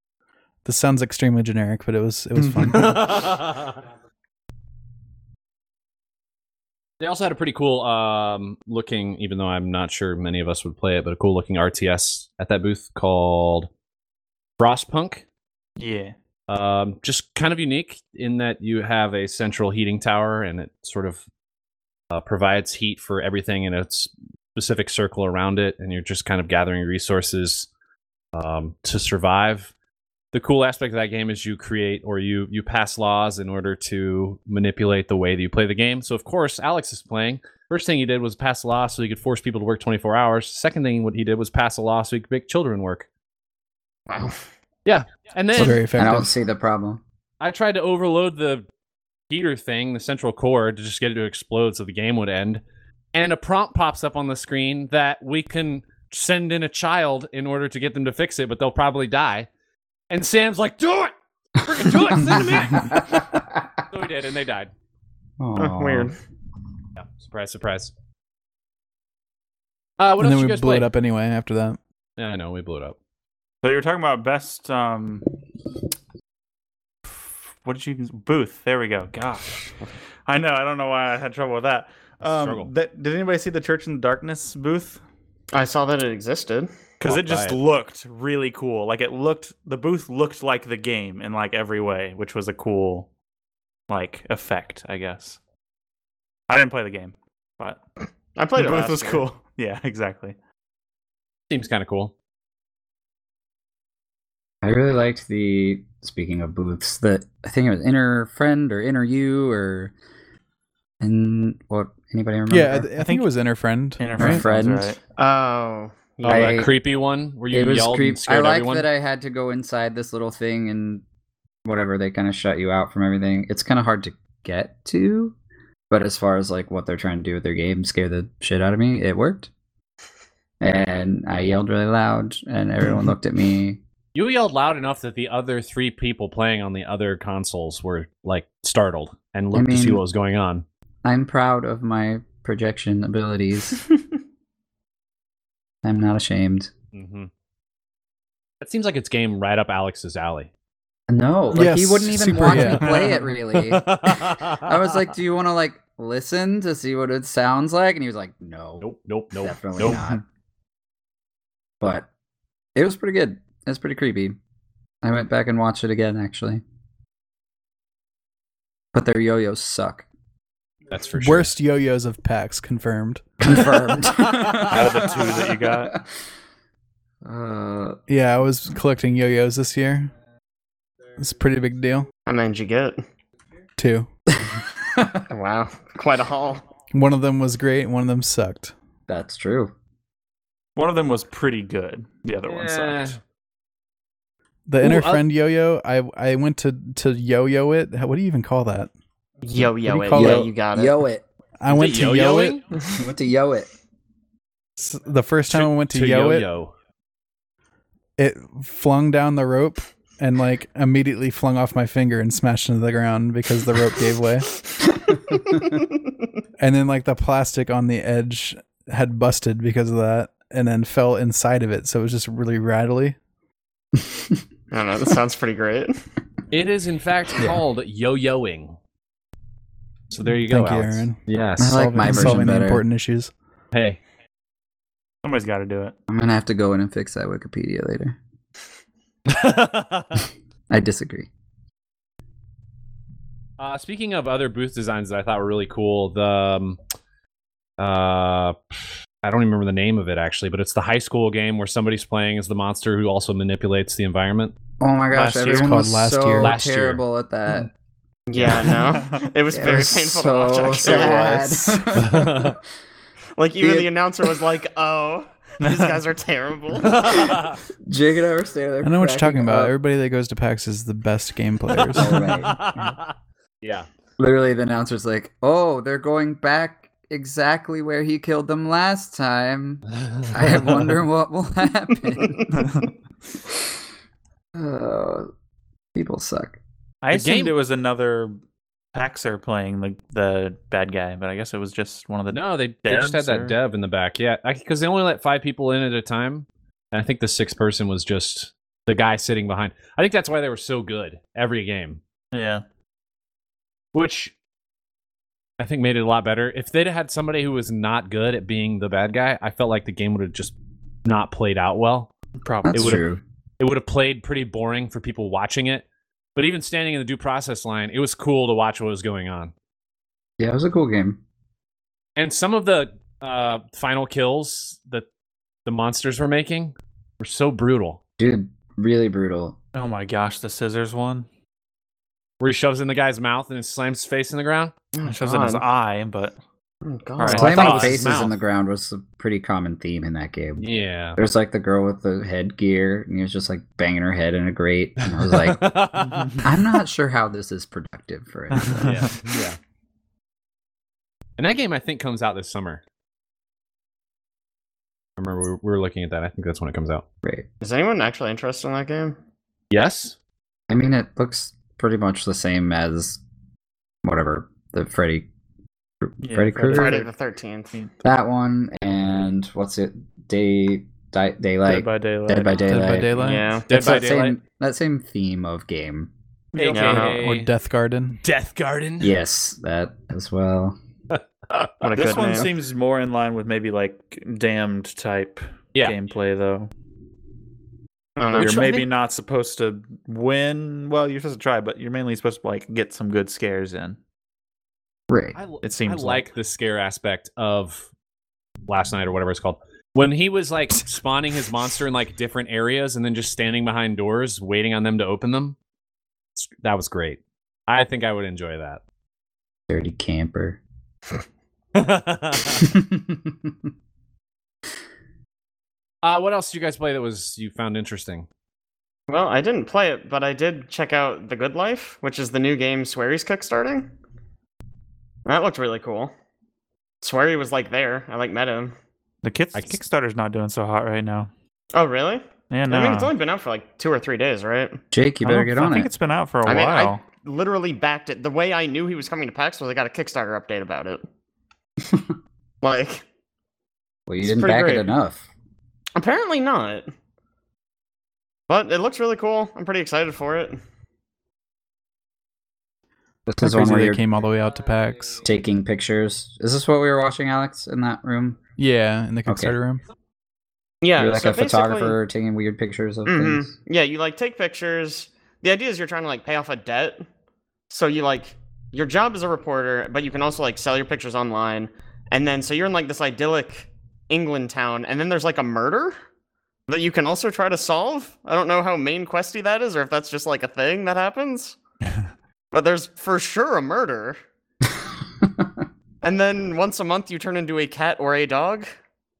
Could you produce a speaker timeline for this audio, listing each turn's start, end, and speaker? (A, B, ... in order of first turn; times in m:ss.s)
0:00.6-0:03.1 A
0:02.7-0:03.8 B
0:07.0-0:13.7 B
0:14.6-0:15.2 B
0:15.8-0:16.1 C
0:16.5-0:21.2 B
0:22.1-0:27.7 B
0:28.3-0:29.7 B
0:30.3-0:43.0 B
0:44.1-0:44.4 D
0:44.8-0:45.9 B
0:45.5-0:46.3 A
0:46.0-0:47.0 E
0:47.4-0:48.6 B
0:49.3-0:52.6 B
0:53.1-0:59.5 B
1:00.1-1:03.2 B
1:02.2-1:03.6 E
1:03.9-1:04.7 B
1:05.4-1:06.1 E
1:05.6-1:06.1 D
1:07.0-1:07.9 B
1:10.0-1:10.9 B
1:10.2-1:11.8 A
1:12.2-1:13.0 B
1:13.6-1:15.2 C
1:17.0-1:25.0 C
1:22.2-1:22.7 B
1:25.5-1:26.7 D
1:27.0-1:33.1 C
1:27.0-1:27.6 B
1:33.9-1:35.4 C
1:36.5-1:37.8 C
1:38.4-1:39.3 D
1:38.6-1:40.4 C
1:41.5-1:42.1 B
1:44.6-1:49.9 E
1:51.0-1:52.9 E
1:52.5-1:54.4 A
1:53.0-1:53.3 C
1:54.0-1:55.0 C
1:54.2-1:54.9 E
1:55.2-1:56.6 D
1:56.2-1:58.9 B
1:56.2-1:56.7 E
1:57.5-2:01.0 E
2:01.6-2:05.4 E
2:05.9-2:09.5 E
2:10.6-2:13.8 E
2:14.1-2:20.6 B
2:19.5-2:20.0 E
2:21.0-2:23.8 E
2:25.8-2:26.7 E
2:26.9-2:27.3 B
2:28.6-2:30.5 B
2:31.1-2:38.8 E
2:31.5-2:33.1 A
2:32.8-2:33.3 C
2:33.5-2:34.9 B
2:38.8-2:40.0 B
2:39.4-2:40.2 E
2:41.8-2:42.1 E
2:42.7-2:44.4 E
2:45.0-2:46.6 E
2:48.9-2:50.0 E
2:50.9-2:51.5 B
2:51.2-2:53.7 A
2:53.4-2:56.1 E
2:54.6-2:55.9 C
2:57.2-2:58.0 E
2:58.1-3:00.1 A
3:01.2-3:02.1 A
3:02.2-3:03.0 D
3:03.8-3:04.1 A
3:04.5-3:05.2 E
3:05.3-3:06.6 D
3:06.9-3:08.7 A
3:09.1-3:09.7 E
3:10.8-3:13.2 C
3:12.4-3:13.2 B
3:14.7-3:18.9 A
3:14.8-3:15.2 B
3:19.4-3:21.0 D
3:19.6-3:20.5 A
3:20.1-3:21.2 E
3:21.6-3:22.6 A
3:21.7-3:22.6 B
3:23.0-3:23.7 E
3:24.8-3:26.5 A
3:25.5-3:26.7 B
3:28.2-3:34.5 A
3:35.5-3:35.8 D
3:36.6-3:43.2 A
3:44.7-3:46.0 D
3:46.5-3:48.8 B
3:50.1-3:52.4 B
3:50.4-3:53.3 A
3:51.6-3:52.8 E
3:53.7-3:54.0 B
3:55.2-3:55.9 C
3:56.1-3:58.2 E
3:59.3-4:00.2 B
4:00.7-4:01.3 E
4:03.6-4:06.8 B
4:07.8-4:14.6 B
4:14.8-4:17.7 E
4:15.1-4:15.8 C
4:15.5-4:16.6 A
4:16.4-4:17.0 B
4:18.3-4:21.8 D
4:18.4-4:18.6 B
4:19.5-4:22.5 E
4:21.9-4:22.6 B
4:23.4-4:27.3 D
4:23.6-4:23.9 E
4:25.6-4:26.0 C
4:26.8-4:27.6 B
4:27.8-4:29.7 E
4:28.8-4:32.3 A
4:31.9-4:33.9 B
4:31.9-4:33.0 E
4:34.2-4:42.6 E
4:40.0-4:40.3 B
4:42.5-4:42.9 C
4:44.5-4:45.3 E
4:45.9-4:46.6 E
4:47.0-4:48.4 C
4:47.1-4:47.5 B
4:48.9-4:53.6 C
4:52.3-5:02.0 B
5:02.3-5:02.6 C
5:03.9-5:04.3 B
5:05.6-5:10.5 B
5:11.0-5:12.1 B
5:12.4-5:13.0 C
5:12.6-5:13.2 E
5:12.7-5:13.0 B
5:13.6-5:19.5 B
5:20.4-5:21.2 E
5:22.2-5:25.1 B
5:25.6-5:28.0 B
5:28.2-5:29.6 E
5:29.7-5:31.3 C
5:32.4-5:34.7 B
5:34.9-5:35.6 D
5:35.0-5:36.4 C
5:36.8-5:38.0 D
5:37.2-5:38.1 C
5:37.3-5:40.6 E
5:37.3-5:38.3 B
5:40.6-5:41.2 B
5:41.2-5:45.6 E
5:45.0-5:46.4 B
5:46.0-5:46.4 C
5:46.4-5:49.1 E
5:48.5-5:49.1 C
5:48.8-5:49.6 B
5:51.4-5:52.8 B
5:55.2-5:57.0 B
5:57.6-5:59.2 D
5:59.7-6:00.2 B
6:00.7-6:03.2 E
6:04.0-6:05.3 E
6:06.0-6:07.0 E
6:06.2-6:07.1 C
6:06.7-6:07.8 D
6:08.0-6:16.1 E
6:11.6-6:13.0 C
6:12.6-6:13.5 A
6:13.2-6:13.6 D
6:13.7-6:14.4 B
6:16.5-6:17.0 C
6:16.5-6:17.5 B
6:16.7-6:17.2 D
6:16.9-6:18.2 A
6:18.2-6:19.1 B
6:19.0-6:20.8 E
6:21.1-6:22.4 B
6:21.8-6:22.5 D
6:21.9-6:26.7 C
6:28.2-6:28.8 D
6:28.3-6:28.8 B
6:28.3-6:34.0 C
6:35.1-6:35.4 E
6:35.3-6:37.8 B
6:35.6-6:36.3 C
6:38.7-6:45.6 B
6:46.4-6:48.8 B
6:49.7-6:50.6 E
6:51.7-6:52.7 B
6:52.6-6:53.5 E
6:56.0-6:58.3 B
6:59.1-7:03.9 D
7:05.2-7:06.1 D
7:07.0-7:08.7 D
7:09.2-7:11.3 C
7:09.5-7:09.8 B
7:11.7-7:14.8 D
7:12.5-7:13.1 C
7:14.9-7:15.9 E
7:15.2-7:17.0 C
7:16.4-7:21.0 D
7:22.6-7:23.0 D
7:24.1-7:25.3 E
7:24.2-7:24.9 D
7:25.9-7:26.9 D
7:28.5-7:30.6 D
7:33.3-7:34.0 E
7:33.4-7:35.2 A
7:35.2-7:38.4 E
7:38.6-7:39.8 A
7:39.3-7:39.5 E
7:40.8-7:42.0 D
7:41.0-7:43.5 E
7:43.0-7:47.0 D
7:47.7-7:55.9 D
7:56.7-8:01.6 D
8:02.5-8:04.2 D
8:05.2-8:05.6 E
8:06.0-8:08.7 D